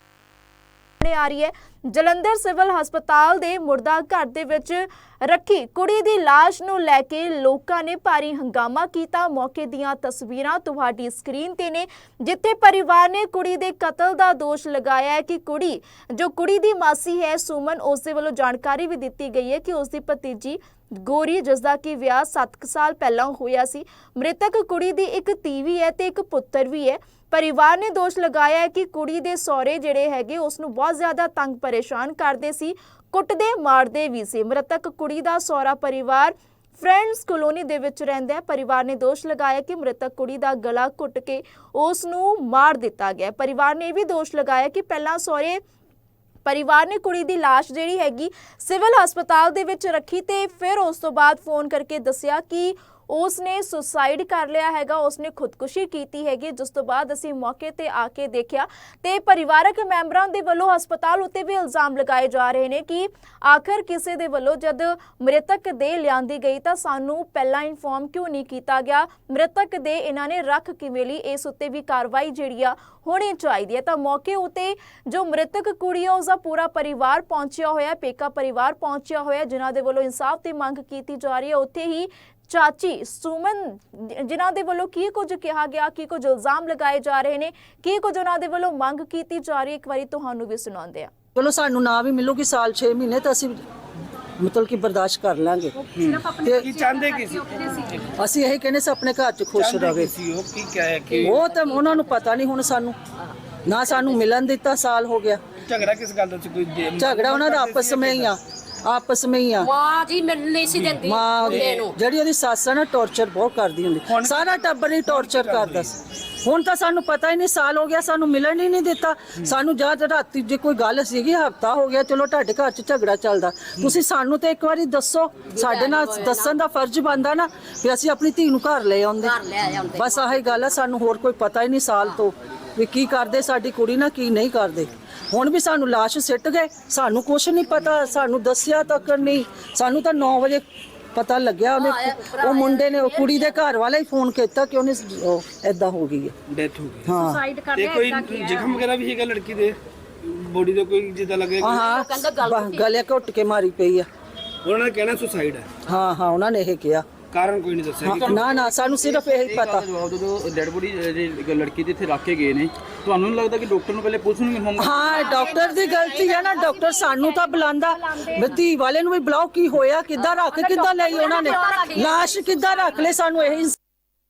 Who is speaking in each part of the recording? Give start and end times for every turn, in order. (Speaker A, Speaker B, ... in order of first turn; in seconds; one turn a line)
Speaker A: 1.0-45.6
Speaker A: 46.5-91.1
Speaker B: 91.3-93.6
Speaker B: 94.4-96.8
Speaker C: 96.0-98.1
Speaker D: 96.0-97.9
Speaker B: 98.2-100.1
Speaker C: 99.5-101.3
Speaker D: 101.2-102.1
Speaker B: 101.2-103.0
Speaker B: 103.7-105.4
Speaker C: 105.6-108.3
Speaker B: 107.0-109.7
Speaker D: 109.6-112.0
Speaker C: 110.7-111.7
Speaker B: 110.8-115.9
Speaker C: 114.1-116.0
Speaker B: 116.4-140.6
Speaker D: 125.5-126.6
Speaker D: 129.2-130.7
Speaker B: 141.1-146.3
Speaker D: 141.8-143.6
Speaker C: 146.5-147.2
Speaker B: 147.1-147.5
Speaker D: 147.2-148.8
Speaker C: 147.7-151.7
Speaker B: 151.6-154.1
Speaker D: 151.7-153.0
Speaker C: 154.6-155.8
Speaker B: 155.8-157.1
Speaker C: 157.3-158.4
Speaker B: 158.0-159.9
Speaker E: 158.1-165.6
Speaker B: 164.8-173.8
Speaker D: 165.2-168.5
Speaker D: 170.4-173.1